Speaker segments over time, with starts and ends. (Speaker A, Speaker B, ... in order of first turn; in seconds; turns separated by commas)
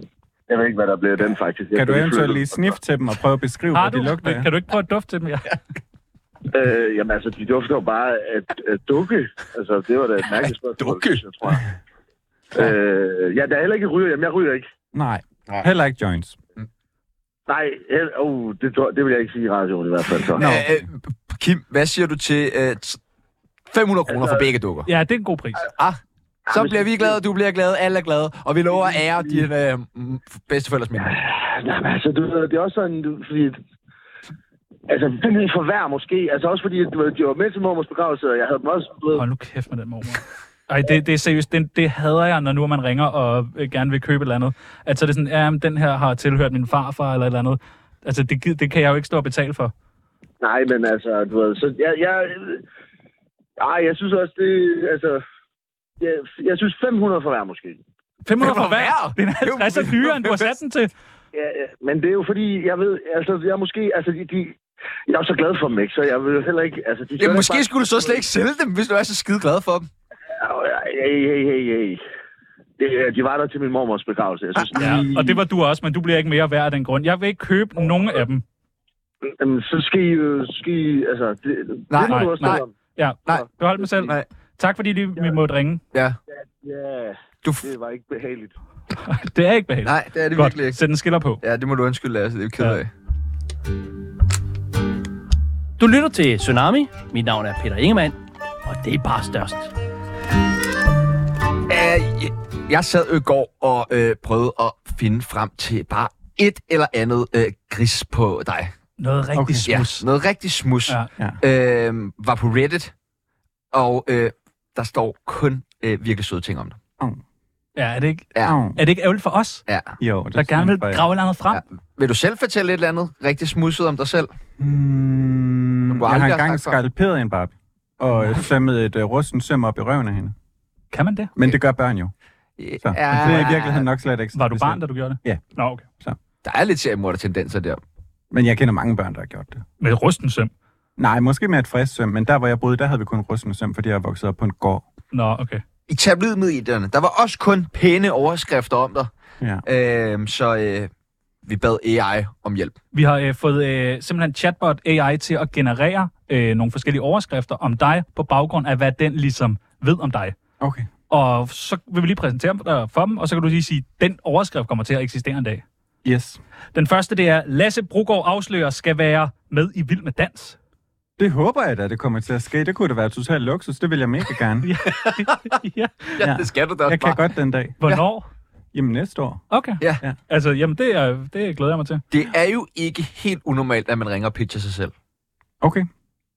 Speaker A: 0.5-2.7, Speaker B: 1.7-4.5, Speaker C: 3.7-5.5, Speaker A: 6.5-11.6, Speaker D: 10.4-11.2, Speaker A: 12.5-14.7, Speaker B: 14.9-16.4, Speaker A: 17.5-20.4, Speaker D: 20.3-23.0, Speaker B: 20.4-20.8, Speaker D: 23.7-24.9, Speaker A: 24.1-24.4, Speaker C: 24.9-25.7, Speaker D: 25.8-31.1, Speaker A: 26.5-27.1, Speaker A: 28.7-29.4, Speaker A: 31.0-33.6, Speaker A: 34.9-39.2, Speaker C: 39.1-49.7, Speaker A: 50.4-52.6, Speaker A: 53.6-55.2, Speaker A: 56.0-57.8, Speaker C: 58.2-60.9, Speaker D: 58.4-60.5, Speaker A: 61.3-68.2, Speaker D: 67.2-69.9, Speaker A: 70.3-72.0, Speaker A: 72.8-75.3, Speaker D: 74.6-75.1, Speaker C: 74.8-78.4, Speaker A: 79.2-82.7, Speaker D: 81.9-82.6, Speaker C: 82.1-85.8, Speaker A: 83.3-84.2, Speaker A: 86.3-88.5, Speaker D: 87.4-87.7, Speaker C: 88.9-91.4, Speaker D: 89.8-90.8, Speaker D: 91.4-92.9, Speaker E: 95.8-98.2, Speaker E: 98.7-99.7, Speaker D: 101.7-108.7, Speaker C: 109.0-110.0, Speaker B: 109.3-109.7, Speaker D: 109.7-112.9, Speaker D: 113.7-116.8, Speaker C: 117.8-119.6, Speaker B: 118.4-118.8, Speaker D: 119.7-120.0, Speaker B: 120.0-121.0, Speaker C: 120.3-121.6, Speaker D: 121.5-124.3, Speaker B: 124.6-130.3, Speaker D: 125.9-126.8, Speaker C: 130.9-131.3, Speaker B: 131.3-132.1, Speaker D: 132.6-133.9, Speaker B: 132.8-135.4, Speaker C: 134.3-135.9, Speaker D: 136.4-137.8, Speaker B: 138.3-139.6, Speaker C: 139.8-140.5, Speaker B: 141.0-144.8, Speaker C: 145.1-145.6, Speaker D: 145.9-149.1, Speaker D: 149.6-150.9, Speaker D: 151.4-152.8, Speaker C: 152.9-160.3, Speaker B: 160.6-160.9, Speaker C: 161.1-165.6, Speaker B: 166.0-166.4, Speaker C: 166.7-170.6, Speaker B: 171.2-174.8, Speaker C: 174.6-176.2, Speaker D: 174.9-175.3, Speaker D: 176.2-177.2, Speaker B: 176.2-177.8, Speaker C: 177.8-178.3, Speaker B: 178.7-179.4, Speaker C: 179.5-182.0, Speaker D: 182.1-184.9, Speaker B: 185.6-185.9